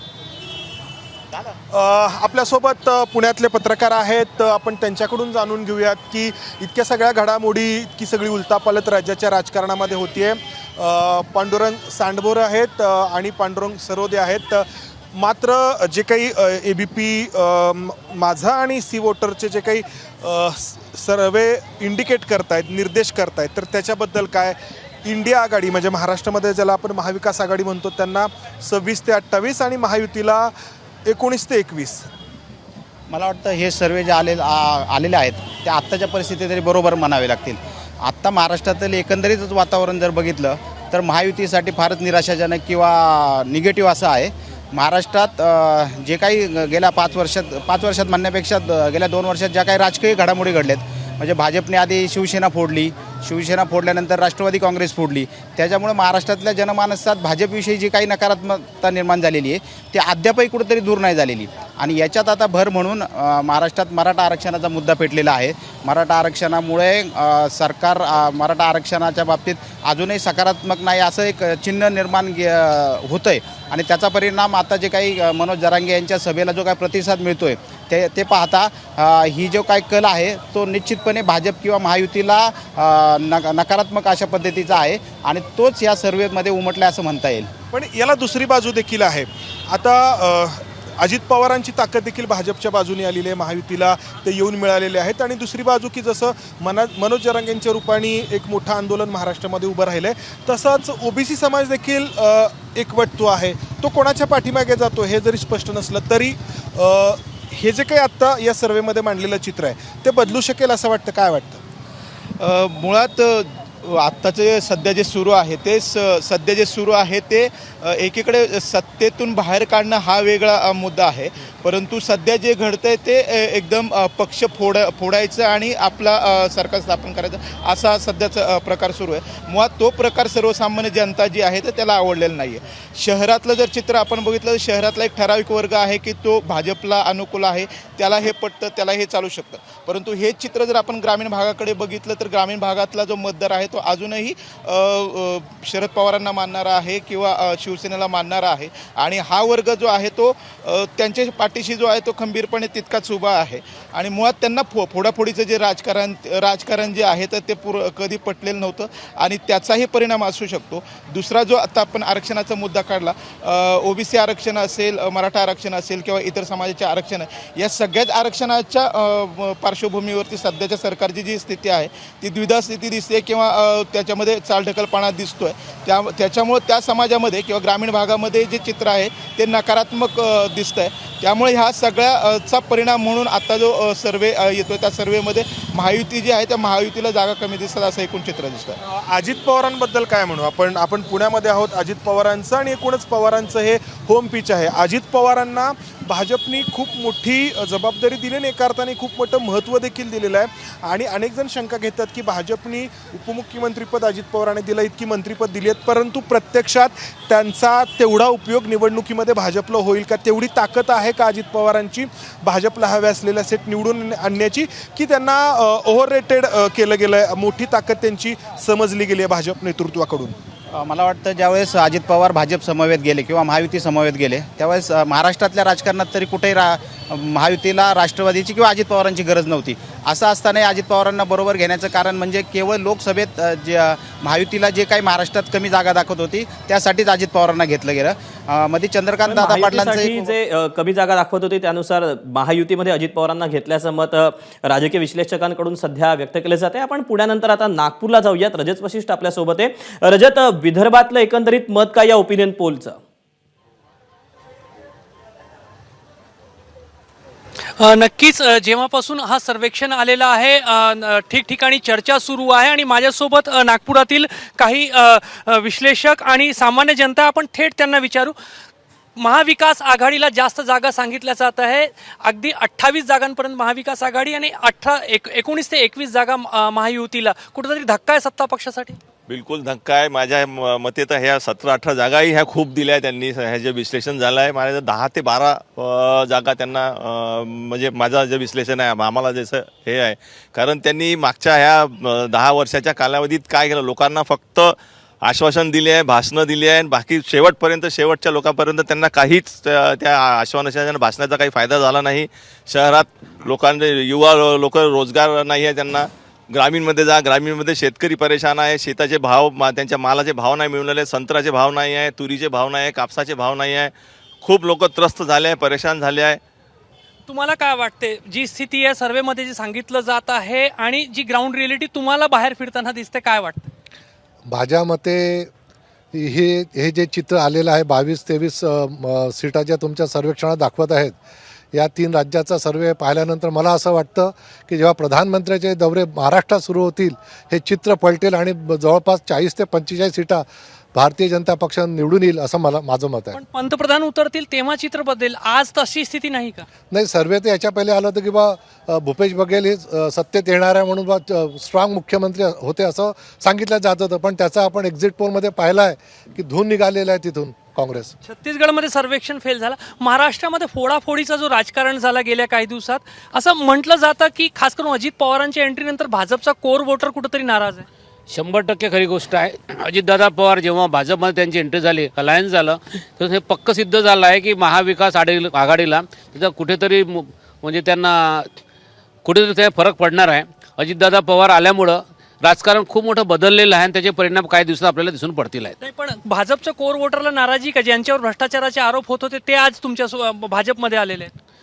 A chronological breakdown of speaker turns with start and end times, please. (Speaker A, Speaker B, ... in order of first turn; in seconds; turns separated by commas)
Speaker A: 1.7-30.5, Speaker A: 31.1-32.1, Speaker B: 33.1-87.5, Speaker A: 87.7-111.6, Speaker C: 112.5-113.4, Speaker C: 114.0-188.7, Speaker A: 188.9-220.3, Speaker B: 220.7-240.2, Speaker D: 239.3-253.0, Speaker E: 257.8-268.4, Speaker E: 269.2-279.0, Speaker F: 279.3-316.4, Speaker E: 317.3-323.7, Speaker G: 324.5-325.5, Speaker G: 326.1-331.2, Speaker G: 331.7-343.4, Speaker E: 343.3-346.7, Speaker G: 346.9-358.1, Speaker E: 358.2-367.9, Speaker H: 368.3-378.5, Speaker H: 379.2-385.8, Speaker E: 385.8-391.3